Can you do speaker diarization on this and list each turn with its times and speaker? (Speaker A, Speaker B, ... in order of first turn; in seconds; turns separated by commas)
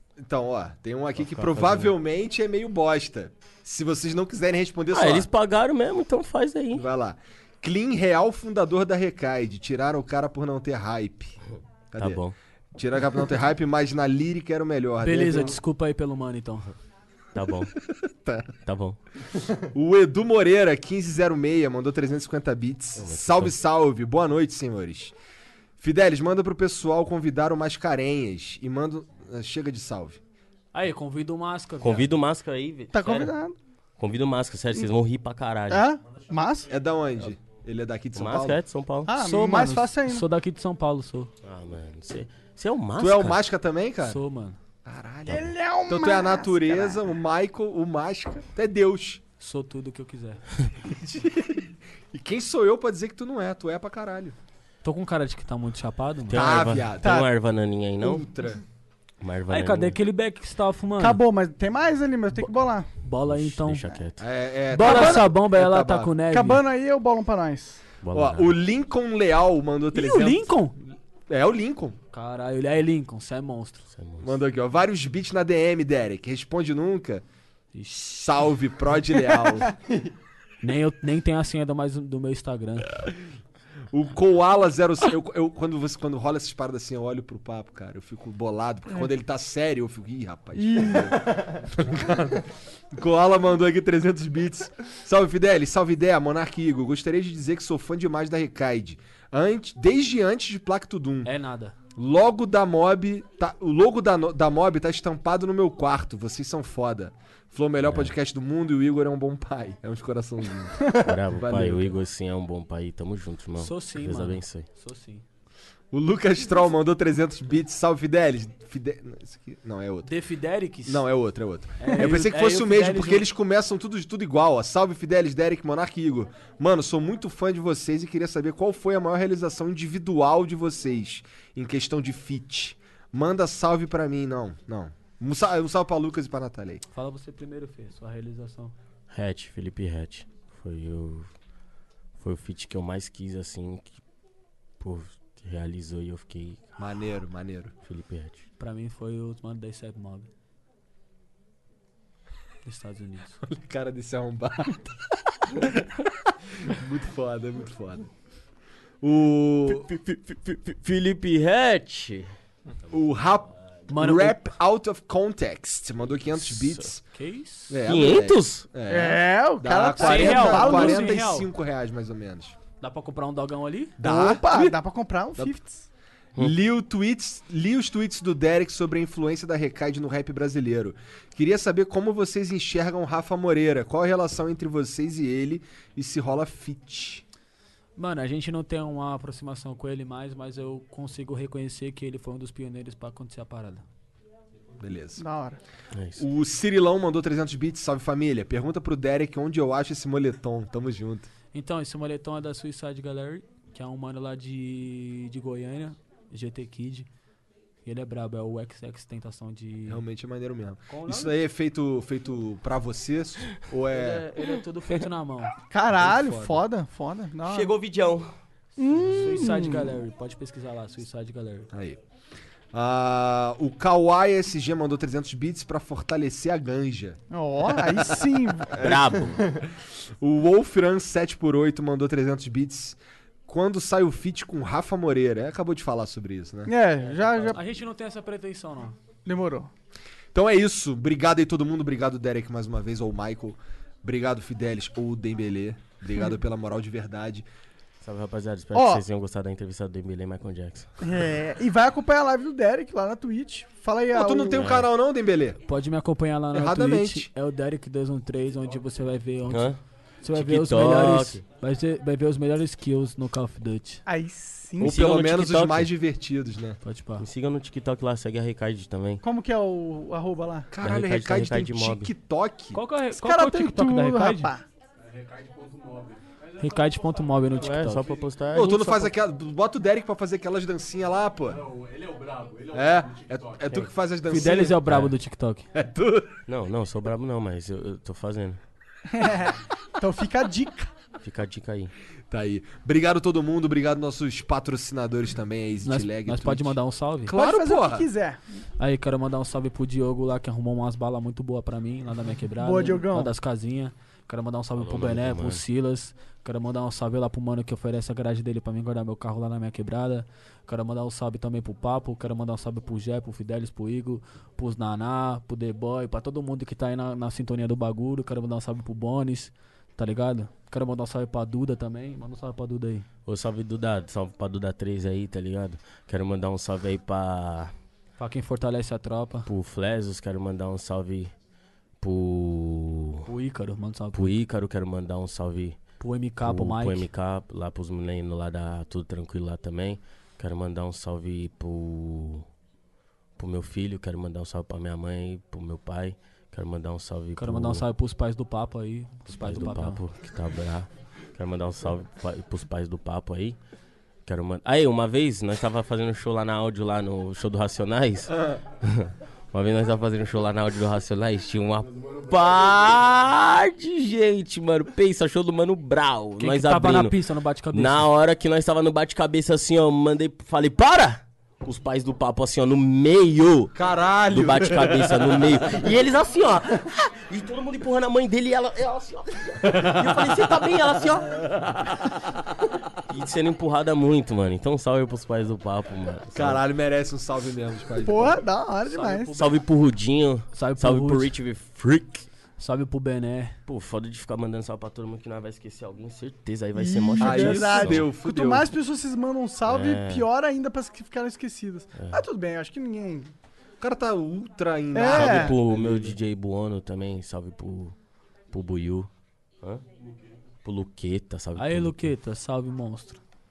Speaker A: 0.2-5.3, Speaker B: 1.2-1.9, Speaker B: 4.9-6.8, Speaker A: 6.7-11.4, Speaker A: 11.9-12.2, Speaker B: 12.0-12.3, Speaker A: 12.7-15.6, Speaker C: 15.0-16.7, Speaker B: 17.3-17.7, Speaker A: 18.2-18.5, Speaker B: 18.6-19.0, Speaker A: 19.6-25.1, Speaker B: 23.0-23.5, Speaker A: 25.8-30.2, Speaker C: 30.7-32.1, Speaker B: 31.8-33.3, Speaker D: 32.9-33.5, Speaker B: 34.0-35.9, Speaker D: 35.7-36.7, Speaker A: 36.7-38.6, Speaker B: 38.1-39.1, Speaker D: 39.0-40.2, Speaker C: 39.2-41.3, Speaker B: 41.4-43.4, Speaker A: 43.0-44.2, Speaker C: 44.0-44.6, Speaker A: 44.8-49.2, Speaker D: 45.3-47.0, Speaker C: 49.4-50.4, Speaker A: 50.8-54.3, Speaker C: 54.8-56.4, Speaker A: 56.3-57.2, Speaker B: 56.3-58.3, Speaker A: 58.0-58.6, Speaker B: 59.2-59.9, Speaker C: 59.5-61.2, Speaker D: 61.0-62.9, Speaker C: 63.0-64.0, Speaker B: 63.3-64.2, Speaker A: 64.2-66.1, Speaker C: 64.7-66.6, Speaker D: 64.8-65.2, Speaker D: 66.3-67.8, Speaker B: 68.0-68.6, Speaker A: 68.1-72.0, Speaker C: 69.9-70.7, Speaker C: 72.1-73.8, Speaker B: 73.9-74.3, Speaker A: 74.2-77.2, Speaker C: 77.7-78.0, Speaker A: 77.9-79.7, Speaker C: 80.6-83.0, Speaker A: 83.9-101.3, Speaker D: 90.5-91.1, Speaker C: 101.2-101.7, Speaker A: 102.0-111.9, Speaker B: 107.8-108.1, Speaker B: 110.9-114.7, Speaker C: 113.6-115.2, Speaker A: 115.9-120.1, Speaker C: 120.0-121.0, Speaker A: 120.8-136.8, Speaker C: 121.8-123.3, Speaker C: 136.9-138.7, Speaker B: 139.1-141.3, Speaker B: 142.2-144.0, Speaker B: 144.8-146.8, Speaker A: 146.8-147.7, Speaker B: 147.8-148.4, Speaker C: 148.6-150.3, Speaker C: 152.6-153.4, Speaker A: 153.4-155.8, Speaker A: 156.6-158.1, Speaker A: 159.0-159.9, Speaker B: 159.7-162.3, Speaker A: 162.9-167.0, Speaker C: 163.9-164.4, Speaker B: 166.3-166.9, Speaker C: 167.1-167.8, Speaker A: 167.7-172.6, Speaker B: 167.8-168.7, Speaker D: 168.9-171.2, Speaker C: 169.9-171.5, Speaker C: 172.8-174.0, Speaker A: 174.0-174.8, Speaker D: 174.0-175.8, Speaker A: 176.3-187.2, Speaker C: 187.9-193.8, Speaker A: 194.8-195.2, Speaker D: 195.2-195.6, Speaker B: 195.9-196.2, Speaker A: 196.2-201.3, Speaker C: 201.5-207.1, Speaker C: 207.8-210.0, Speaker A: 209.9-214.3, Speaker C: 210.9-211.4, Speaker C: 213.9-215.5, Speaker D: 215.7-217.8, Speaker A: 215.9-216.6, Speaker B: 217.4-218.3, Speaker D: 218.8-219.9, Speaker C: 219.0-221.7, Speaker A: 221.7-222.0, Speaker A: 222.7-227.2, Speaker D: 227.3-228.7, Speaker B: 228.8-229.5, Speaker A: 228.8-229.6, Speaker A: 230.2-236.7, Speaker D: 236.7-237.6, Speaker C: 237.5-239.0, Speaker D: 239.2-239.7, Speaker A: 240.3-247.4, Speaker B: 248.0-250.9, Speaker D: 248.7-249.0, Speaker D: 251.0-254.6, Speaker A: 254.1-255.6, Speaker B: 254.5-254.9, Speaker C: 255.7-259.7, Speaker A: 256.5-257.3, Speaker B: 259.5-259.8, Speaker C: 260.2-264.0, Speaker B: 260.3-261.4, Speaker D: 264.1-265.0, Speaker B: 264.8-265.9, Speaker A: 264.8-266.8, Speaker C: 266.8-267.2, Speaker B: 267.2-269.2, Speaker D: 269.2-270.7, Speaker A: 270.7-272.8, Speaker B: 270.8-272.1, Speaker C: 272.7-274.5, Speaker D: 273.1-274.6, Speaker E: 275.0-278.4, Speaker C: 276.6-278.1, Speaker B: 277.6-279.1, Speaker A: 278.5-281.6, Speaker E: 281.5-283.9, Speaker A: 282.7-284.9, Speaker C: 284.3-285.6, Speaker B: 284.9-285.1, Speaker A: 285.7-286.3, Speaker B: 286.5-288.6, Speaker D: 289.1-290.9, Speaker B: 291.2-291.9, Speaker A: 292.3-298.1, Speaker C: 295.8-297.3, Speaker D: 297.3-298.4, Speaker C: 298.8-323.1, Speaker D: 302.6-303.3, Speaker B: 304.8-305.6, Speaker B: 323.2-327.7, Speaker C: 328.2-329.5, Speaker B: 329.5-331.3, Speaker B: 332.0-333.3, Speaker C: 333.2-334.3, Speaker B: 334.1-335.8, Speaker C: 336.0-337.1, Speaker B: 336.4-342.4, Speaker B: 343.4-347.8, Speaker C: 347.4-350.0, Speaker B: 349.3-353.6, Speaker B: 354.2-367.1, Speaker E: 361.8-363.1, Speaker C: 366.4-368.1, Speaker B: 367.7-373.7, Speaker A: 373.7-375.6, Speaker B: 374.3-382.0, Speaker B: 383.0-386.6, Speaker A: 386.3-388.4, Speaker D: 388.0-389.3, Speaker C: 388.9-389.6, Speaker B: 389.3-392.2, Speaker C: 390.5-391.3, Speaker C: 392.6-393.5, Speaker B: 393.7-398.1, Speaker D: 396.7-403.3, Speaker A: 397.2-398.7, Speaker B: 399.6-400.2, Speaker B: 401.9-402.2, Speaker A: 403.8-406.2, Speaker D: 404.9-405.5, Speaker B: 405.0-407.9, Speaker B: 408.5-409.1, Speaker E: 410.1-410.3, Speaker B: 410.6-412.1, Speaker C: 411.6-413.2